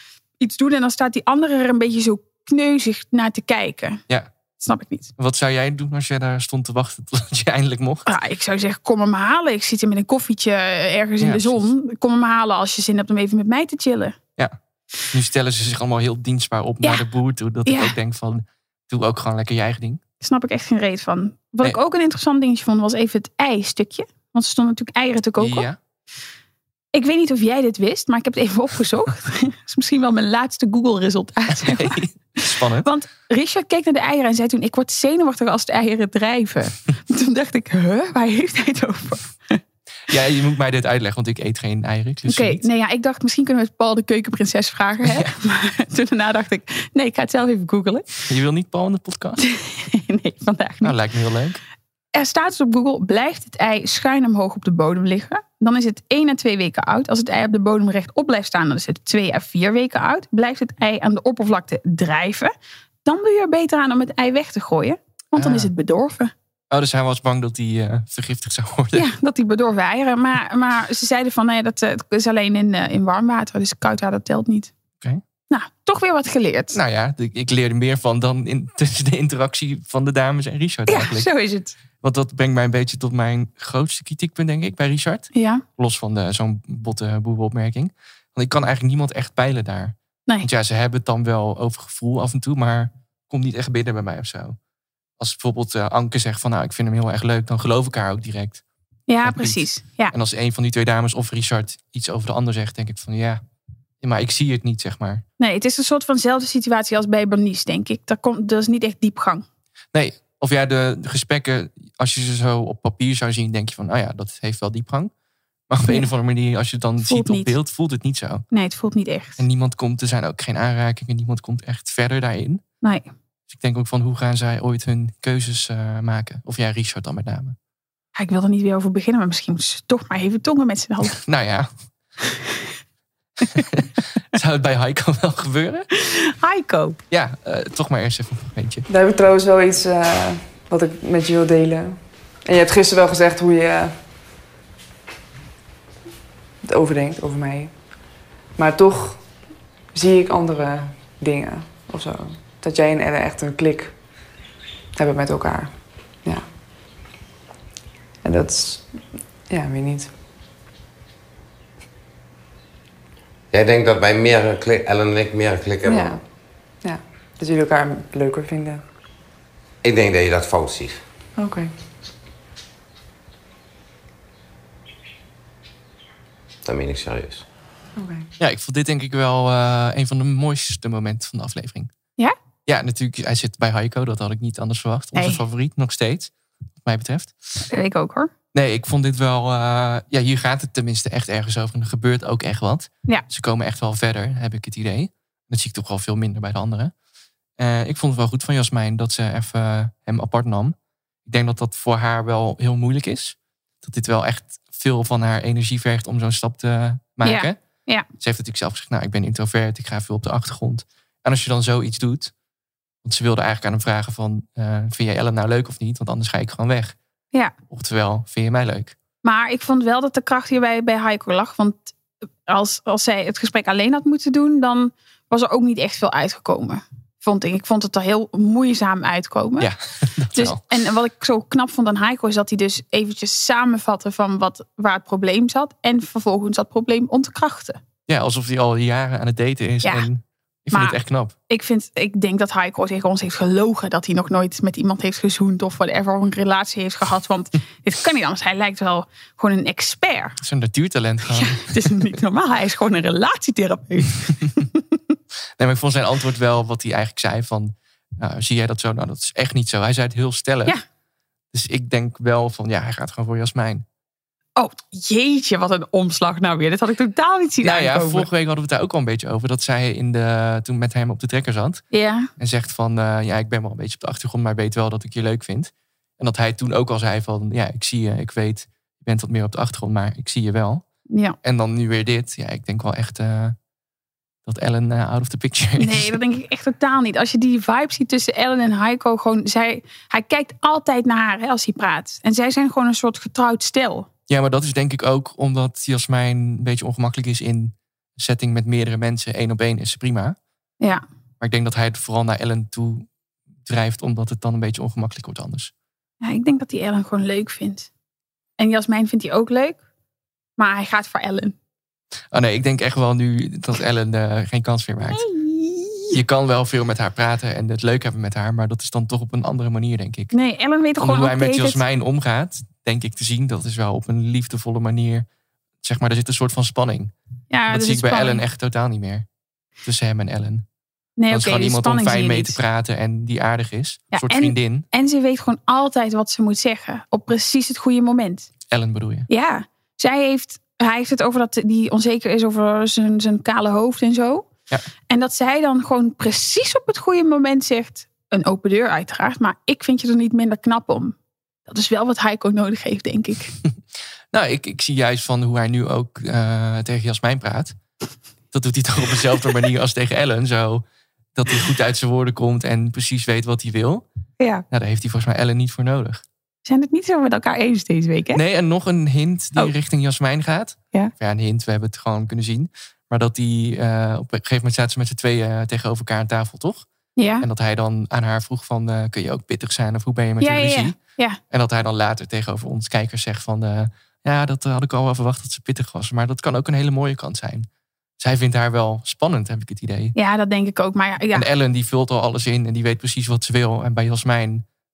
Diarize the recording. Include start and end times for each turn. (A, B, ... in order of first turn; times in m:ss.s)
0:00.4-0:04.0 A
0:04.6-0:05.1 A
0:05.2-0:08.1 B
0:08.1-0:14.2 A
0:11.2-0:11.7 B
0:15.1-0:20.0 B
0:17.7-0:17.9 A
0:20.2-0:25.7 A
0:25.4-0:25.8 B
0:26.9-0:32.0 A
0:31.5-0:32.9 B
0:32.8-0:39.6 A
0:40.1-0:42.6 B
0:42.3-0:48.1 A
0:45.0-0:45.3 B
0:48.3-0:49.4 B
0:49.4-0:51.0 A
0:50.8-0:51.6 B
0:52.1-1:02.5 A
1:03.0-1:06.3 A
1:05.4-1:05.7 B
1:06.7-1:09.1 B
1:08.9-1:14.7 A
1:15.5-1:16.8 A
1:16.7-1:21.3 B
1:20.9-1:21.8 A
1:22.0-1:34.6 B
1:25.3-1:25.6 A
1:35.2-1:38.6 B
1:39.1-1:40.1 A
1:39.2-1:43.4 B
1:44.0-1:45.2 B
1:45.4-1:49.4 A
1:49.9-1:55.1 B
1:55.7-1:58.4 B
1:57.0-1:57.5 A
1:58.5-1:59.4 A
1:59.4-2:02.6 B
2:02.8-2:03.1 A
2:03.5-2:07.6 B
2:08.2-2:11.2 A
2:11.1-2:11.7 B
2:13.7-2:15.9 B
2:16.0-2:17.0 A
2:17.1-2:18.9 B
2:18.9-2:24.0 C
2:26.6-2:27.7 C
2:28.6-2:29.2 C
2:29.9-2:34.0 C
2:35.0-2:36.5 C
2:38.2-2:38.9 C
2:39.5-2:40.1 C
2:43.5-2:46.1 D
2:45.8-2:46.2 C
2:46.8-2:48.8 C
2:49.8-2:51.0 D
2:51.4-2:51.7 C
2:56.6-2:57.4 D
2:58.0-2:58.3 C
2:58.4-3:01.9 B
3:02.7-3:06.3 B
3:05.2-3:05.4 A
3:06.8-3:07.3 B
3:07.7-3:08.3 A
3:08.5-3:16.9 B
3:17.6-3:20.8 B
3:21.3-3:27.6 B
3:27.2-3:28.1 A
3:28.2-3:32.3 B
3:33.0-3:37.0 B
3:37.7-3:39.0 B
3:39.2-3:41.9 A
3:42.5-3:49.7 A
3:49.6-3:50.6 B
3:50.3-3:57.8 A
3:58.1-4:01.4 B
4:00.7-4:01.0 A
4:01.5-4:10.4 A
4:10.4-4:12.1 B
4:11.3-4:14.8 A
4:15.6-4:20.8 B
4:21.5-4:23.8 B
4:24.6-4:28.3 A
4:27.6-4:31.8 B
4:31.9-4:32.3 A
4:32.4-4:40.8 B
4:41.1-4:41.4 A
4:41.4-4:43.6 B
4:44.5-4:46.2 B
4:45.8-4:54.1 A
4:54.3-5:00.4 B
5:01.4-5:03.1 B
5:03.6-5:05.7 B
5:06.2-5:07.9 A
5:08.6-5:09.8 A
5:10.6-5:11.6 A
5:12.3-5:15.2 B
5:15.1-5:16.2 A
5:16.1-5:20.3 B
5:20.3-5:21.8 A
5:21.0-5:25.3 B
5:25.8-5:27.1 B
5:27.5-5:28.4 A
5:27.7-5:29.3 B
5:29.8-5:30.6 B
5:31.2-5:32.6 A
5:31.3-5:34.9 B
5:34.1-5:38.5 A
5:38.7-5:39.3 B
5:39.3-5:44.5 A
5:45.1-5:51.2 A
5:51.7-5:53.5 A
5:54.3-5:57.8 B
5:58.5-6:04.1 B
6:04.7-6:06.2 B
6:06.7-6:08.4 A
6:08.3-6:16.9 B
6:17.2-6:17.5 A
6:17.4-6:21.0 B
6:20.4-6:21.4 A
6:21.5-6:27.7 B
6:28.2-6:30.2 B
6:30.2-6:31.5 A
6:31.3-6:34.6 B